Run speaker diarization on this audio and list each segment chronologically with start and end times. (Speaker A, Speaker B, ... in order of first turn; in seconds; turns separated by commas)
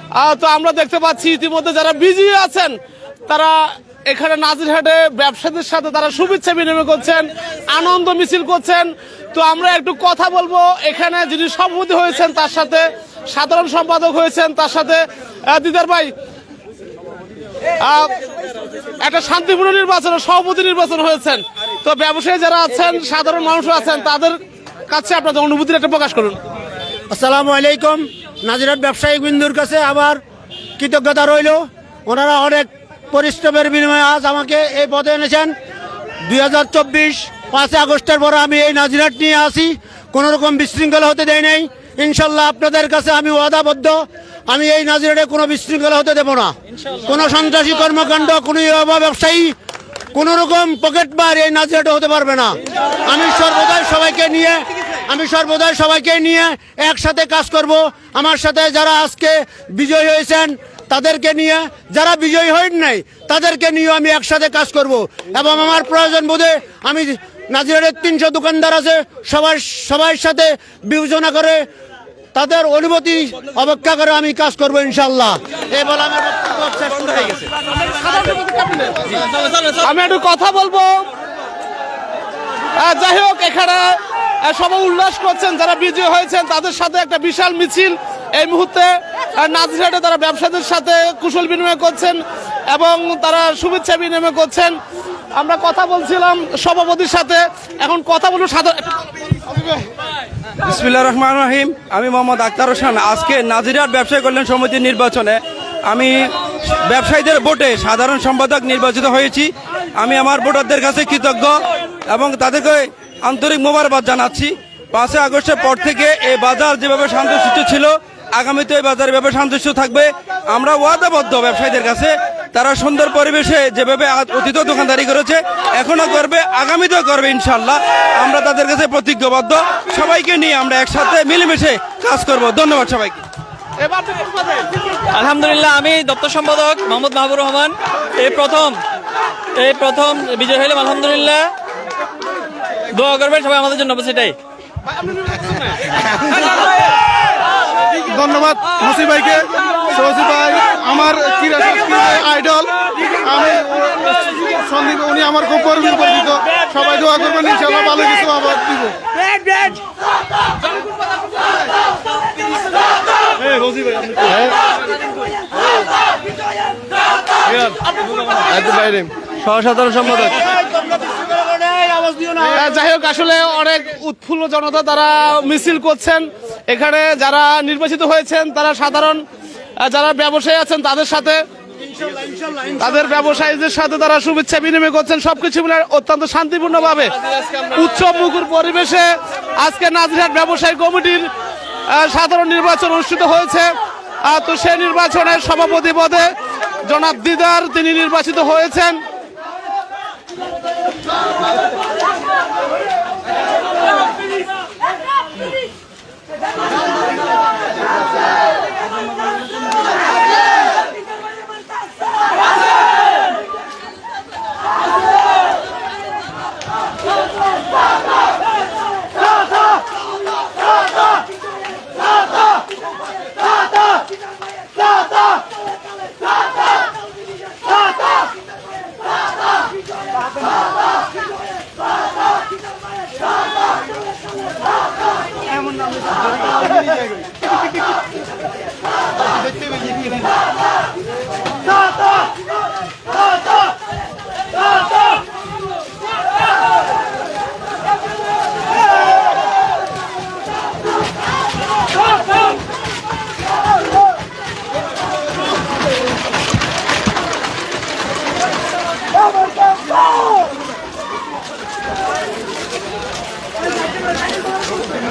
Speaker A: 0.1-2.8, Speaker A: 3.3-16.1, Speaker A: 17.8-18.2, Speaker A: 19.0-26.4, Speaker B: 27.1-30.2, Speaker B: 30.8-35.5, Speaker B: 36.2-49.6, Speaker B: 50.1-71.7, Speaker B: 72.3-77.5, Speaker A: 77.8-81.0, Speaker A: 82.8-94.8, Speaker A: 95.3-99.0, Speaker C: 100.6-133.2, Speaker A: 133.8-134.7, Speaker D: 135.1-138.8, Speaker D: 139.6-141.5, Speaker D: 142.9-144.4, Speaker E: 148.0-159.0, Speaker D: 169.4-170.3, Speaker B: 170.2-172.8, Speaker A: 172.4-179.2, Speaker A: 179.8-181.4, Speaker B: 181.9-182.8, Speaker A: 182.8-191.3, Speaker A: 191.9-193.7, Speaker A: 194.2-199.0